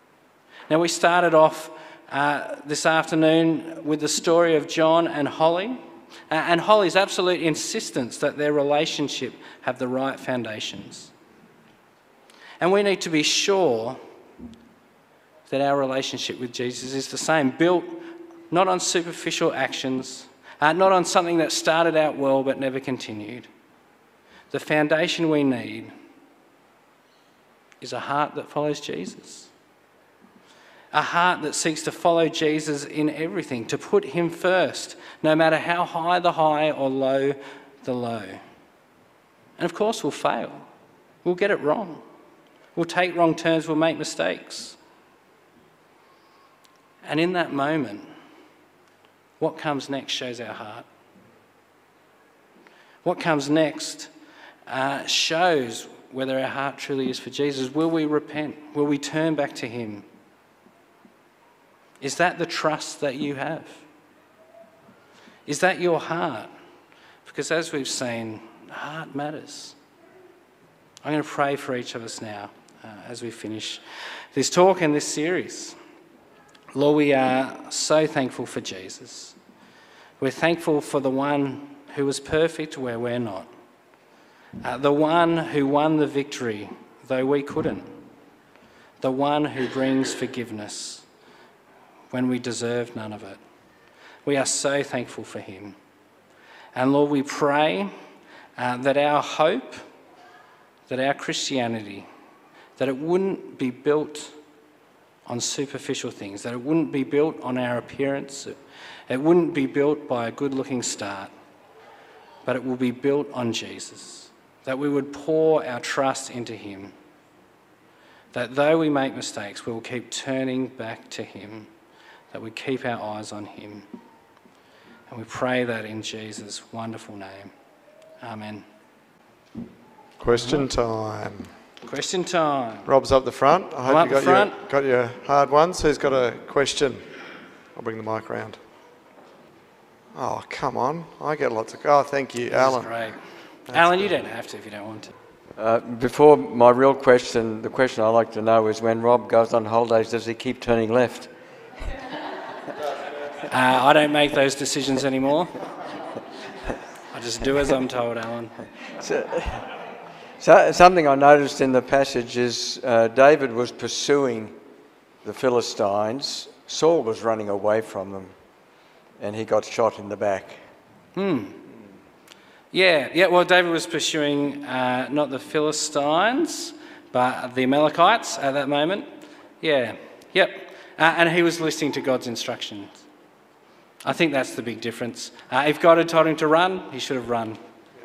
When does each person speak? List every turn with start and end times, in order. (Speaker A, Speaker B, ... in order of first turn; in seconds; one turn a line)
Speaker A: 0.7-11.1
Speaker A: 12.6-14.0
Speaker A: 15.5-23.5
Speaker A: 24.5-25.9
Speaker A: 27.8-29.5
Speaker A: 30.9-38.4
Speaker A: 39.6-40.7
Speaker A: 41.2-42.0
Speaker A: 42.8-44.8
Speaker A: 47.0-48.1
Speaker A: 49.4-50.9
Speaker A: 53.0-54.1
Speaker A: 54.7-60.0
Speaker A: 62.0-63.8
Speaker A: 65.5-66.5
Speaker A: 67.2-69.8
Speaker A: 71.0-75.8
Speaker A: 76.7-79.4
Speaker A: 80.2-83.5
Speaker A: 84.6-87.9
Speaker A: 89.0-91.1
Speaker A: 92.1-93.4
Speaker A: 94.2-95.8
Speaker A: 96.7-97.9
Speaker A: 98.6-99.8
Speaker A: 100.9-102.1
Speaker A: 102.8-104.4
Speaker A: 105.3-108.6
Speaker A: 109.1-111.3
Speaker A: 112.5-116.9
Speaker A: 118.3-121.7
Speaker A: 122.3-123.9
Speaker A: 125.1-127.5
Speaker A: 128.2-128.7
Speaker B: 130.2-131.5
Speaker A: 130.4-130.7
Speaker A: 131.8-132.9
Speaker B: 132.9-137.1
Speaker A: 133.9-134.6
Speaker B: 137.8-138.6
Speaker B: 140.2-142.9
Speaker A: 142.5-143.2
Speaker A: 143.7-145.1
Speaker B: 143.7-144.1
Speaker C: 145.6-151.3
Speaker A: 153.5-155.5
Speaker A: 157.1-158.6
Speaker C: 159.0-159.7
Speaker C: 160.4-164.5
Speaker C: 165.2-168.3
Speaker C: 169.2-170.6
Speaker A: 171.2-171.6
Speaker A: 172.7-179.1
Speaker A: 179.6-183.0
Speaker A: 184.1-187.6